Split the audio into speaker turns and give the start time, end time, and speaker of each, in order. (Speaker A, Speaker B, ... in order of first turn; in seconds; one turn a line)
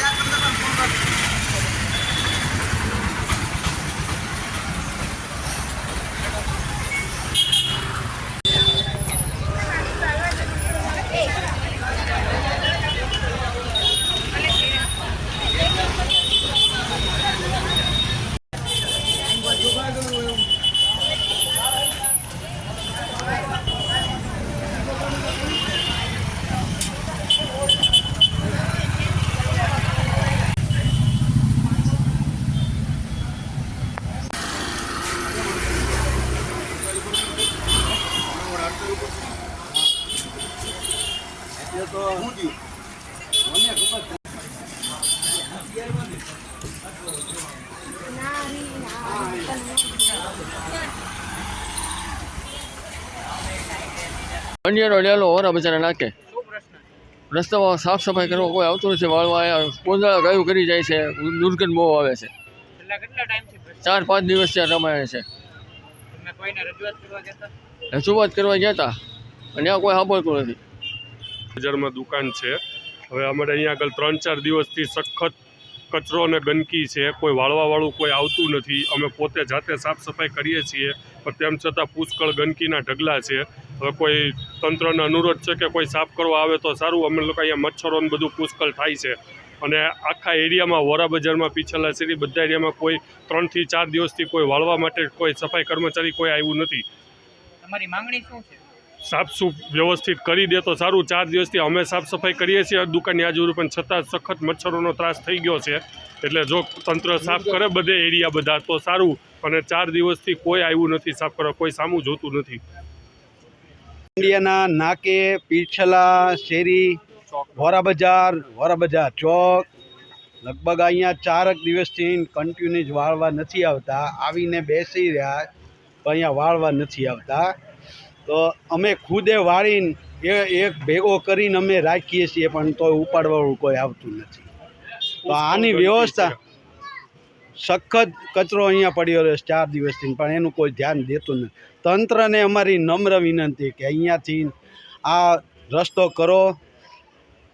Speaker A: 41.6-42.3
Speaker B: 54.6-56.1
Speaker C: 56.3-56.8
Speaker B: 57.3-62.3
Speaker C: 62.8-63.8
Speaker B: 63.8-65.3
Speaker C: 66.1-67.5
Speaker B: 67.9-69.0
Speaker B: 69.5-70.6
Speaker D: 71.6-72.6
Speaker D: 73.1-75.4
Speaker D: 75.9-96.9
Speaker C: 97.6-98.5
Speaker D: 99.0-112.6
Speaker A: 114.2-117.0
Speaker D: 117.4-117.7
Speaker A: 117.6-119.7
Speaker A: 120.4-125.5
Speaker A: 126.0-127.5
Speaker A: 128.3-134.5
Speaker D: 135.2-136.4
Speaker A: 135.3-136.4
Speaker A: 137.6-144.5
Speaker A: 145.1-146.6